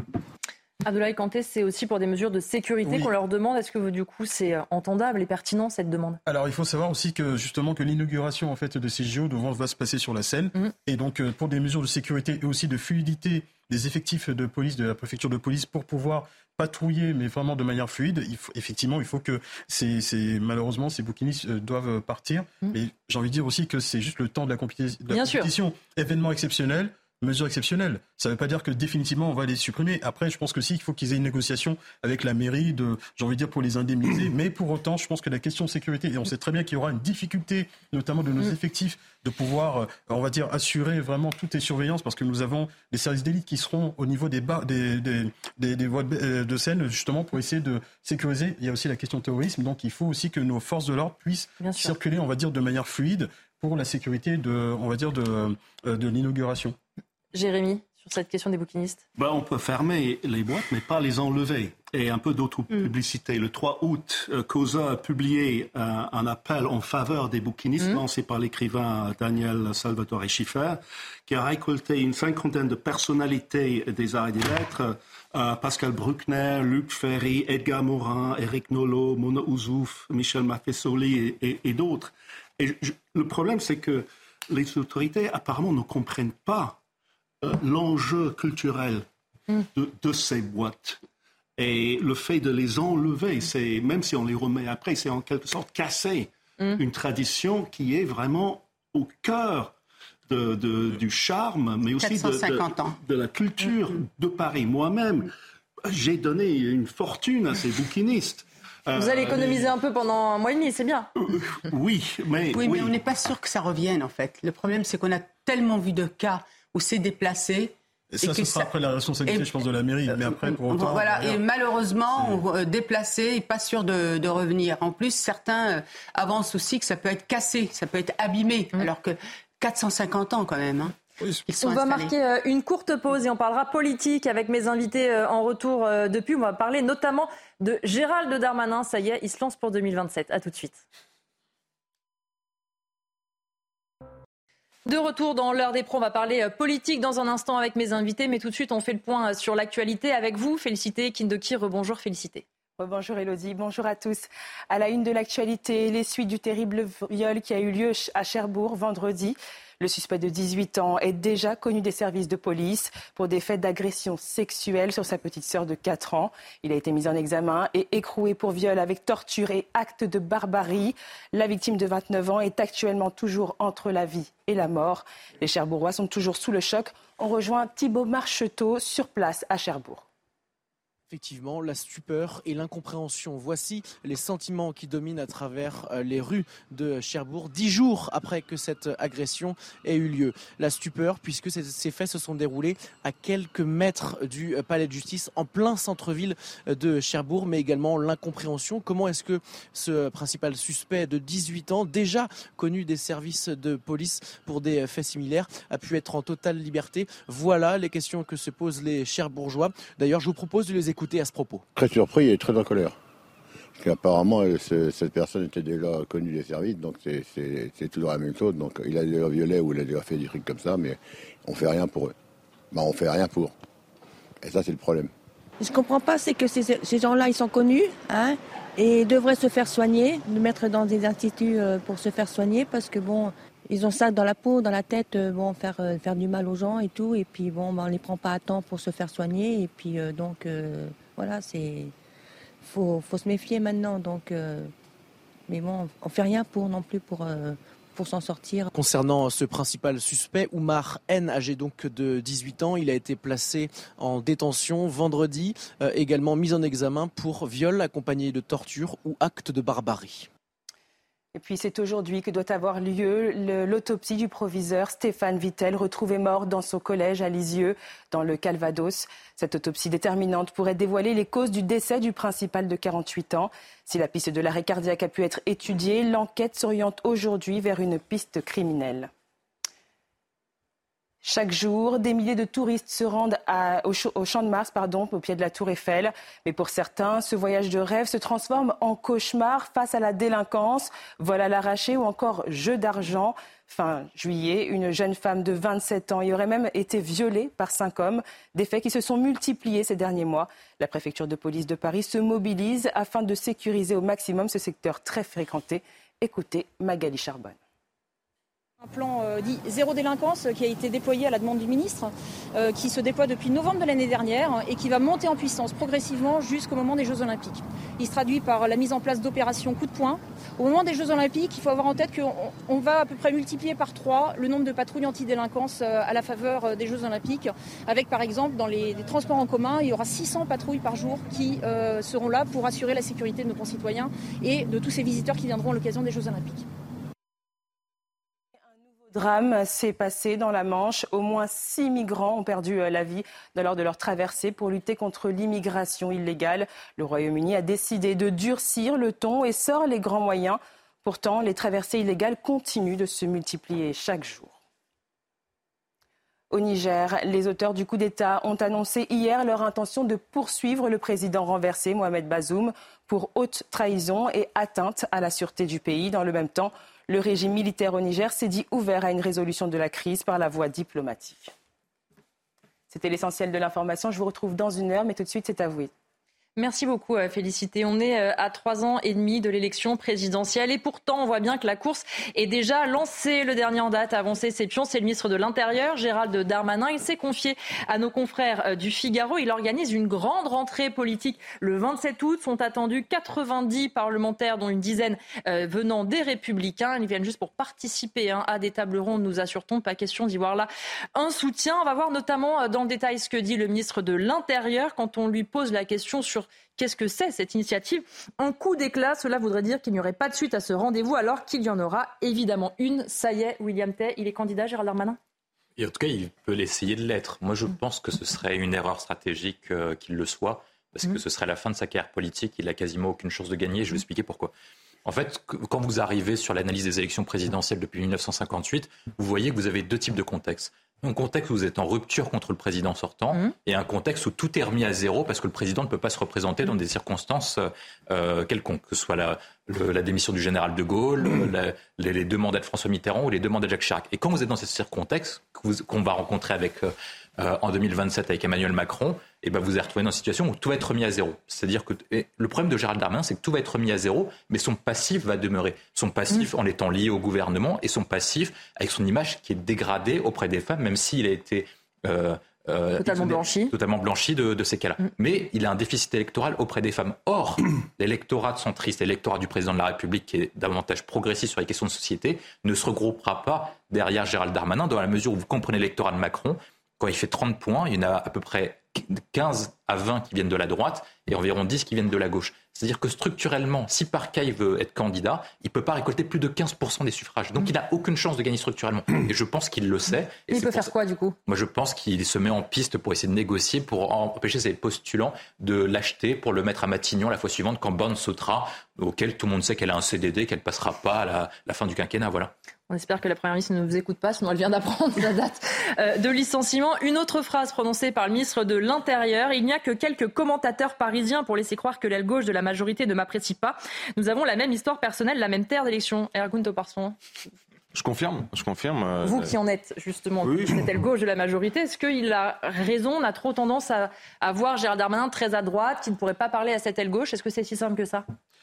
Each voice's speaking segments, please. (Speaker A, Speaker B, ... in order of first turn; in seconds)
Speaker A: 0.8-6.2, 25.1-25.5, 51.6-52.0, 57.3-59.0, 109.0-111.1, 131.5-140.8, 144.8-152.4, 376.6-415.2, 463.0-463.7, 490.5-491.4, 502.9-517.1, 519.2-528.2
Speaker B: 2.8-3.1, 6.2-56.8, 118.1-121.4
Speaker C: 59.2-86.8, 87.4-89.0, 89.7-91.0, 91.6-99.7, 100.3-105.3, 105.8-109.7, 111.2-113.0
Speaker D: 102.0-103.0, 112.5-118.7, 120.1-132.1
Speaker E: 152.8-180.0, 261.3-279.1, 281.2-307.6, 339.0-354.6, 356.5-371.5, 372.9-375.9
Speaker F: 181.1-211.7, 248.7-260.3
Speaker G: 211.7-213.0, 213.8-222.1, 222.7-223.5, 224.4-225.1
Speaker H: 225.6-241.9, 242.6-244.7, 245.5-248.7
Speaker I: 308.8-336.6
Speaker J: 415.8-424.5, 425.0-490.9, 491.5-502.5
Speaker K: 517.9-519.5, 520.4-520.8